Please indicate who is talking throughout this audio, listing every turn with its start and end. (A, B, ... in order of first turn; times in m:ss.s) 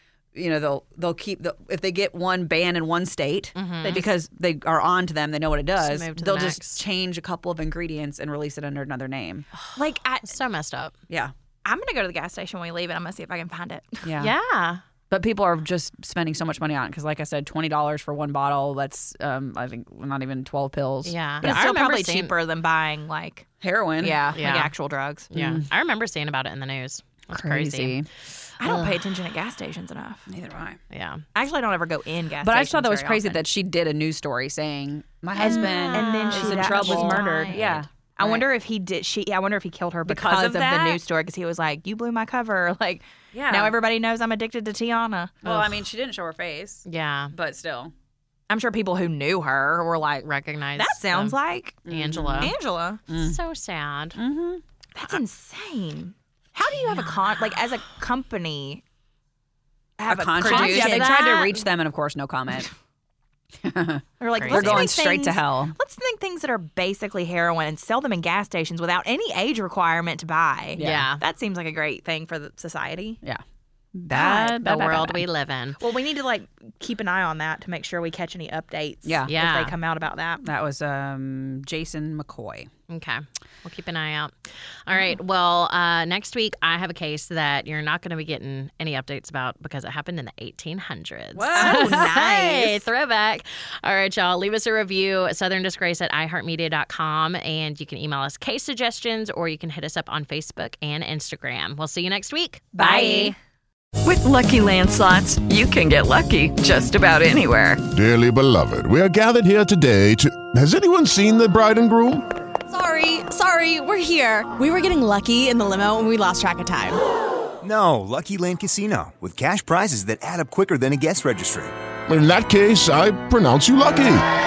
0:00.4-0:09.5 A
0:03.6-0:04.0 B
0:03.8-0:04.1 C
0:05.8-0:06.8 B
0:09.6-0:10.9 B
0:09.8-0:10.3 C
0:11.6-0:14.0 C
0:14.0-0:14.3 A
0:14.2-0:14.8 B
0:15.1-0:21.6 A
0:21.0-0:22.4 B
0:21.4-0:23.5 C
0:23.6-0:24.4 A
0:24.0-0:25.3 C
0:24.3-0:24.7 B
0:25.3-0:29.0 B
0:25.3-0:25.6 A
0:27.3-0:28.1 A
0:28.6-0:30.3 C
0:30.3-0:30.8 A
0:30.9-0:31.2 B
0:31.4-0:33.4 C
0:32.4-0:38.4 A
0:35.4-0:37.9 B
0:35.4-0:45.4 C
0:40.1-0:41.0 A
0:43.3-0:43.8 A
0:45.4-0:47.9 A
0:45.4-0:45.7 B
0:46.8-0:47.3 B
0:48.5-0:51.8 C
0:50.2-0:52.6 B
0:51.9-0:52.6 A
0:52.4-0:53.0 C
0:53.1-0:54.2 B
0:53.1-0:53.4 A
0:54.2-0:54.6 A
0:55.0-0:58.8 C
0:56.9-0:57.4 B
1:00.0-1:01.2 C
1:00.1-1:02.7 A
1:00.4-1:01.7 B
1:03.6-1:05.8 A
1:04.2-1:13.2 C
1:04.4-1:04.9 B
1:10.8-1:11.1 A
1:10.8-1:11.2 B
1:14.0-1:15.2 A
1:14.1-1:15.8 B
1:14.2-1:14.6 C
1:15.8-1:20.4 C
1:19.0-1:19.3 A
1:19.3-1:19.8 B
1:20.4-1:22.7 A
1:22.9-1:24.4 B
1:24.9-1:43.3 B
1:31.4-1:32.2 A
1:31.6-1:32.9 C
1:42.8-1:43.4 C
1:44.0-1:47.9 D
1:47.9-1:52.2 E
1:52.7-1:57.0 F
1:57.6-2:01.7 G
2:02.1-2:04.3 E